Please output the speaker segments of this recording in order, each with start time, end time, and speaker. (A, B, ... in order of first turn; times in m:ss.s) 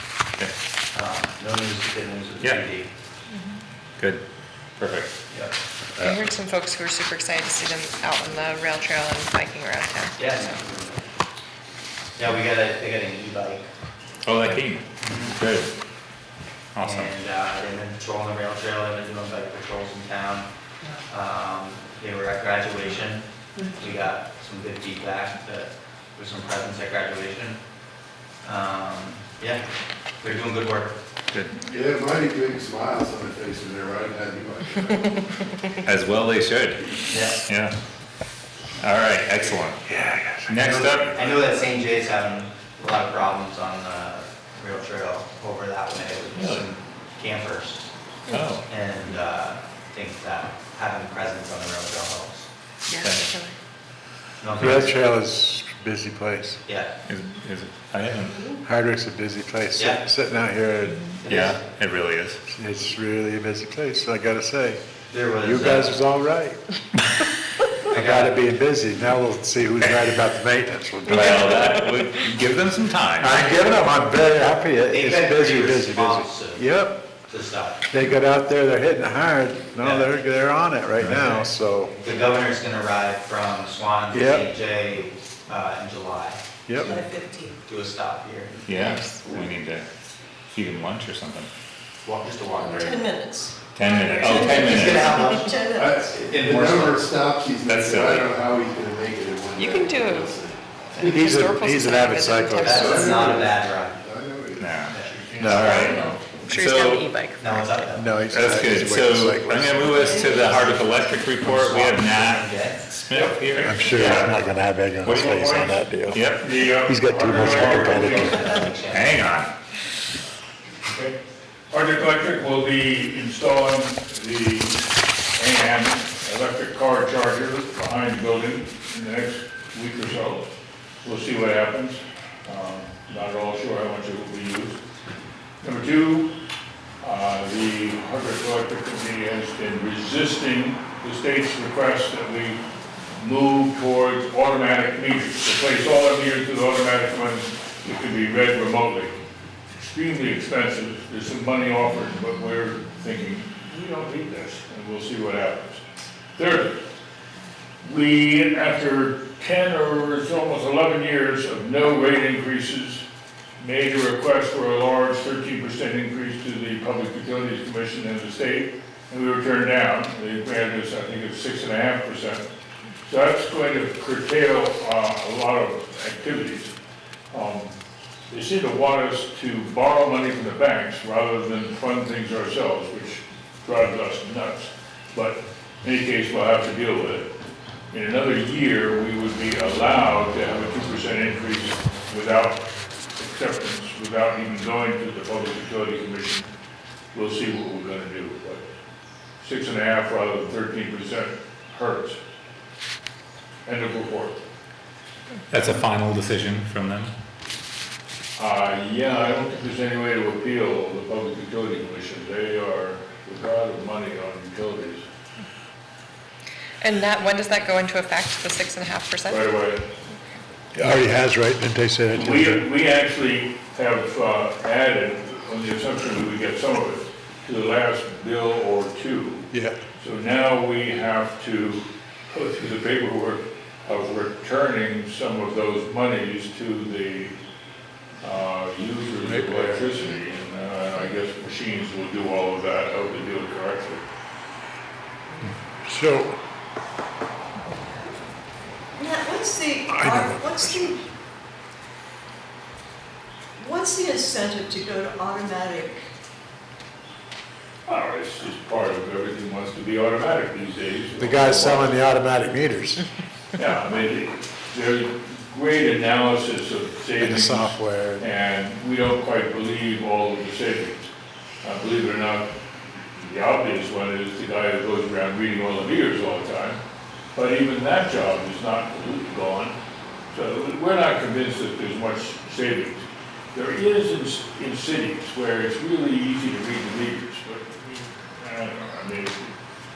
0:00.9-0:02.9 A
0:04.8-0:05.1 B
0:06.0-0:06.3 B
0:06.0-0:10.6 C
0:10.2-0:11.0 A
0:12.2-0:13.7 A
0:14.2-0:15.7 B
0:15.0-0:15.4 A
0:16.8-0:17.1 B
0:16.8-0:20.5 A
0:21.1-0:27.6 A
0:28.4-0:29.6 A
0:30.2-0:31.0 A
0:31.3-0:31.6 B
0:31.6-0:35.4 D
0:35.8-0:36.9 B
0:37.1-0:37.4 A
0:37.4-0:37.7 B
0:38.8-0:39.8 B
0:39.9-0:41.4 E
0:40.5-0:41.2 B
0:41.2-0:47.8 A
0:46.3-0:46.7 B
0:48.3-0:48.6 B
0:48.7-0:52.5 A
0:52.9-0:53.6 C
0:53.0-0:53.3 B
0:54.4-0:55.0 A
0:54.6-0:56.6 E
0:56.7-0:56.9 A
0:57.1-0:58.5 B
0:58.6-1:01.1 E
0:59.8-1:00.0 A
1:01.2-1:01.6 A
1:01.3-1:02.4 B
1:02.5-1:04.8 E
1:05.1-1:06.0 A
1:05.4-1:06.6 E
1:07.9-1:08.4 A
1:07.9-1:11.6 E
1:11.1-1:13.4 B
1:13.2-1:17.1 E
1:14.8-1:17.8 A
1:17.9-1:22.0 E
1:19.8-1:20.2 A
1:21.0-1:21.5 B
1:22.0-1:26.9 A
1:24.1-1:24.5 E
1:26.7-1:27.0 E
1:26.8-1:27.6 F
1:27.6-1:28.6 A
1:28.7-1:29.9 B
1:28.8-1:29.3 C
1:30.5-1:31.5 B
1:32.0-1:33.0 A
1:32.6-1:36.0 F
1:33.7-1:35.1 B
1:34.2-1:37.1 A
1:35.7-1:41.1 D
1:37.7-1:38.3 B
1:39.6-1:40.3 C
1:41.0-1:43.0 C
1:41.0-1:43.4 E
1:42.4-1:43.0 F
1:42.6-1:44.0 A
1:42.7-1:44.9 D
1:44.6-1:47.1 B
1:44.9-1:46.3 G
1:45.4-1:45.9 E
1:46.5-1:47.6 C
1:47.4-1:48.1 A
1:48.0-1:50.1 E
1:48.3-1:54.4 B
1:50.0-1:52.8 A
1:50.0-1:50.7 F
1:53.1-1:54.3 G
1:53.6-1:58.6 E
1:55.0-1:55.8 G
1:55.0-1:56.5 B
1:56.4-1:58.4 G
1:57.2-1:59.1 A
1:58.9-1:59.5 B
2:00.8-2:01.2 G
2:01.7-2:04.8 G
2:05.4-2:10.5 G
2:11.0-2:14.8 G
2:15.6-2:16.3 G
2:17.0-2:22.6 G
2:23.2-2:29.2 G
2:29.8-2:35.8 G
2:36.4-2:36.8 G
2:37.8-2:43.0 G
2:43.6-2:52.4 G
2:53.0-2:56.7 G
2:57.3-2:57.8 G
2:58.3-3:07.3 G
3:07.9-3:12.6 G
3:13.2-3:16.5 G
3:17.1-3:18.6 G
3:19.4-3:22.2 G
3:23.7-3:24.4 G
3:25.5-3:27.1 B
3:28.4-3:35.0 G
3:36.8-3:39.5 C
3:39.3-3:39.8 G
3:40.1-3:40.4 C
3:40.8-3:42.6 E
3:42.1-3:57.4 G
3:49.5-3:49.8 E
3:58.2-4:04.0 G
3:59.2-4:00.1 E
4:05.8-4:06.4 E
4:09.0-4:11.0 F
4:09.9-4:11.0 E
4:13.6-4:16.0 F
4:17.9-4:21.9 G
4:21.2-4:23.0 E
4:23.5-4:31.1 G
4:27.2-4:28.2 E
4:31.6-4:32.5 G
4:33.1-4:36.8 G
4:37.4-4:39.8 G
4:40.3-4:49.6 G